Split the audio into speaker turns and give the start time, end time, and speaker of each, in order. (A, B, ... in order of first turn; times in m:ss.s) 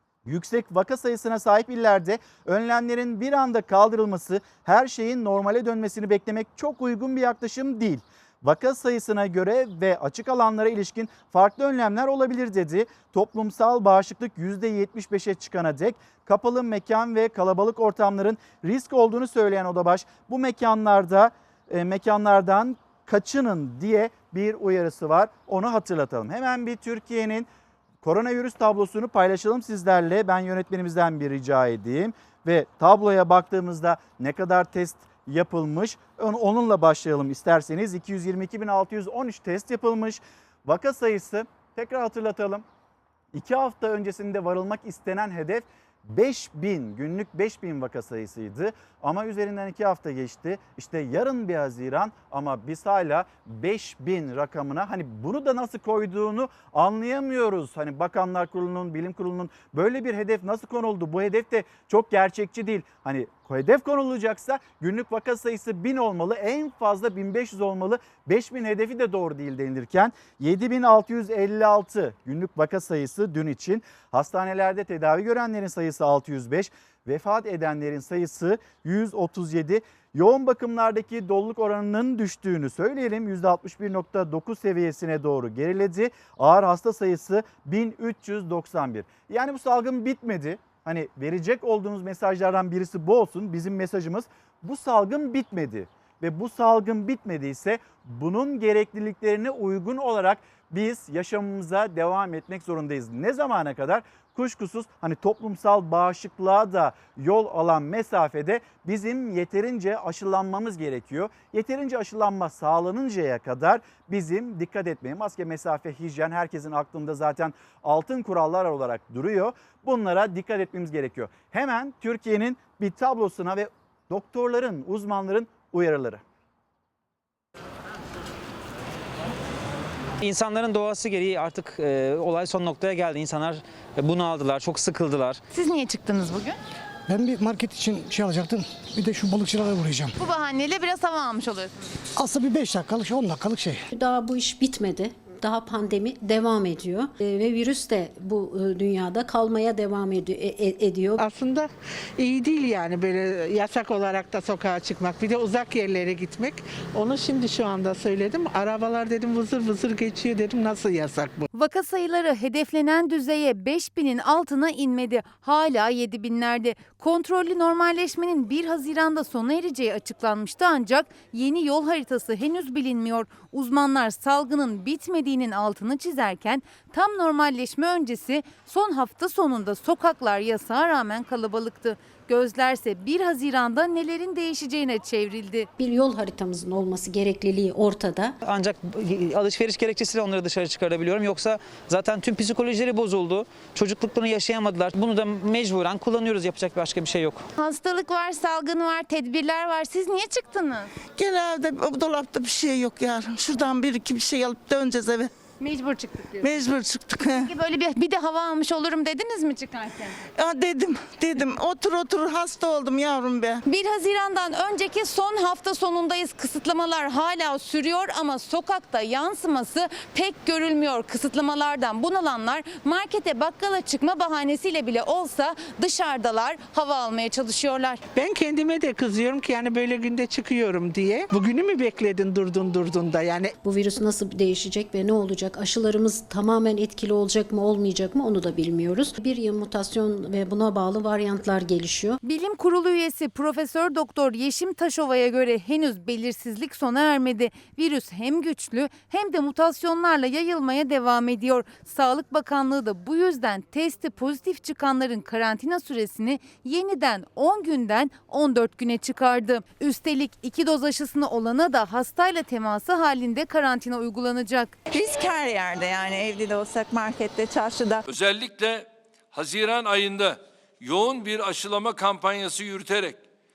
0:00.2-0:27.5 A
0:28.0-0:42.6 A
0:43.3-2:06.2 A
2:10.2-2:15.4 B
2:15.5-2:16.6 C
2:17.1-2:20.1 D
2:20.2-2:21.9 C
2:22.2-2:23.8 D
2:23.9-2:31.2 E
2:31.2-2:41.5 F
2:41.5-3:05.7 C
3:05.8-3:08.4 E
3:08.4-3:17.4 B
3:17.6-3:20.9 C
3:21.2-3:25.2 G
3:25.6-3:26.7 C
3:26.4-3:27.2 G
3:27.2-3:30.2 C
3:30.4-3:33.5 G
3:33.6-3:48.0 C
3:48.1-3:53.5 F
3:53.6-4:02.2 E
4:02.2-4:24.7 C
4:24.9-4:28.0 H
4:28.0-4:33.2 I